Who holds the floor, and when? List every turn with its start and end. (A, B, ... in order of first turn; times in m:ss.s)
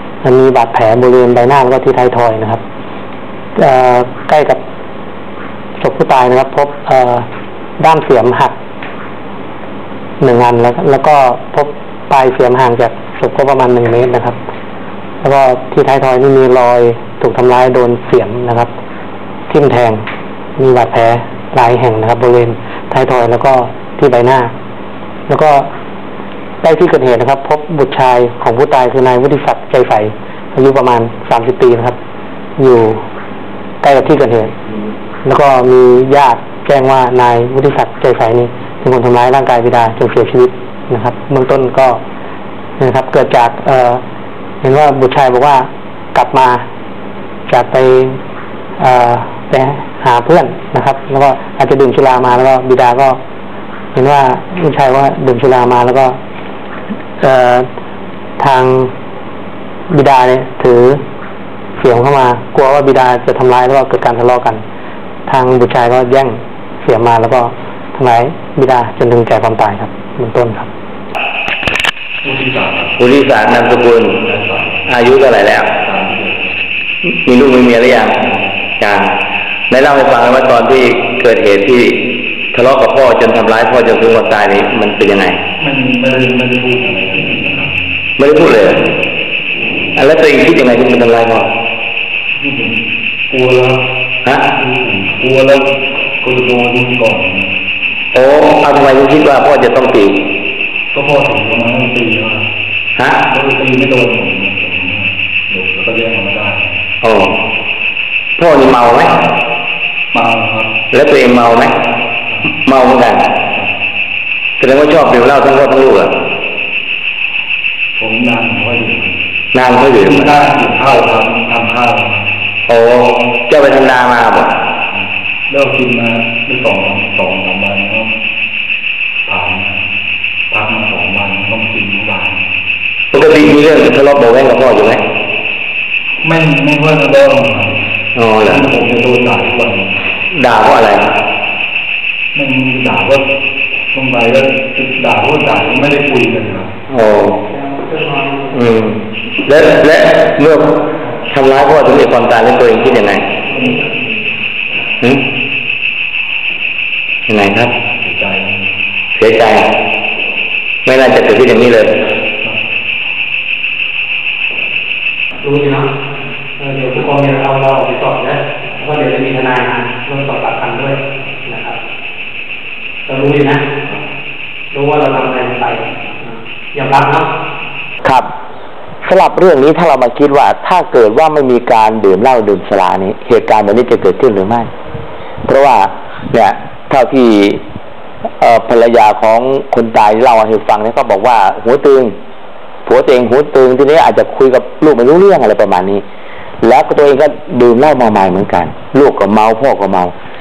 0:00.2-0:02.6 A
0:03.6-0:04.6 A
0:05.8-0:07.3 A
0:07.8-0:08.6 A
0:10.2-0:14.4 A
0:15.2-0:18.7 A
0:19.5-0:20.0 A
0:20.6-0:24.5 A
0:25.3-0:25.7 A
0:26.6-0:32.0 A
0:32.6-0:33.0 A
0:33.8-0:34.6 A
0:35.2-0:42.0 A
0:42.8-0:44.0 A
0:44.6-0:46.6 A
0:47.5-0:48.2 A
0:48.8-0:53.2 A
0:53.9-0:56.2 A
0:57.2-0:57.7 A
0:58.4-0:58.9 A
0:59.9-1:01.0 A
1:01.8-1:04.6 A
1:05.3-1:10.7 A
1:12.2-1:13.0 B
1:13.0-1:14.2 C
1:14.2-1:14.9 B
1:14.9-1:15.7 C
1:15.8-1:16.6 B
1:17.0-1:18.2 C
1:18.8-1:19.1 C
1:19.7-1:25.4 C
1:25.6-1:27.8 B
1:28.2-1:28.8 C
1:30.0-1:31.5 C
1:32.4-1:32.8 B
1:33.3-1:33.8 B
1:34.6-1:35.7 B
1:36.2-1:37.5 B
1:38.1-1:40.2 C
1:40.9-1:42.5 B
1:43.0-1:43.2 C
1:43.3-1:46.8 B
1:47.0-1:47.4 C
1:48.4-1:49.2 C
1:50.1-1:50.7 B
1:50.9-1:51.7 C
1:52.6-1:53.3 C
1:54.6-1:56.1 C
1:58.0-1:59.2 B
1:59.5-2:00.3 C
2:00.0-2:02.3 B
2:02.7-2:04.6 C
2:04.9-2:08.1 B
2:09.3-2:09.8 B
2:10.5-2:12.4 B
2:13.1-2:15.0 C
2:16.2-2:17.8 B
2:18.2-2:18.6 C
2:18.4-2:20.0 B
2:20.3-2:21.2 C
2:22.3-2:23.2 B
2:23.9-2:26.7 B
2:26.9-2:27.4 C
2:27.7-2:28.3 A
2:28.5-2:33.3 C
2:37.3-2:37.7 C
2:38.0-2:38.6 B
2:39.2-2:39.7 C
2:40.8-2:42.0 C
2:45.4-2:45.9 A
2:46.6-2:51.8 A
2:53.1-2:53.6 A
2:54.7-2:57.3 A
2:59.0-3:04.7 C
3:05.5-3:07.6 C
3:08.4-3:12.2 C
3:12.9-3:16.0 C
3:16.6-3:20.1 C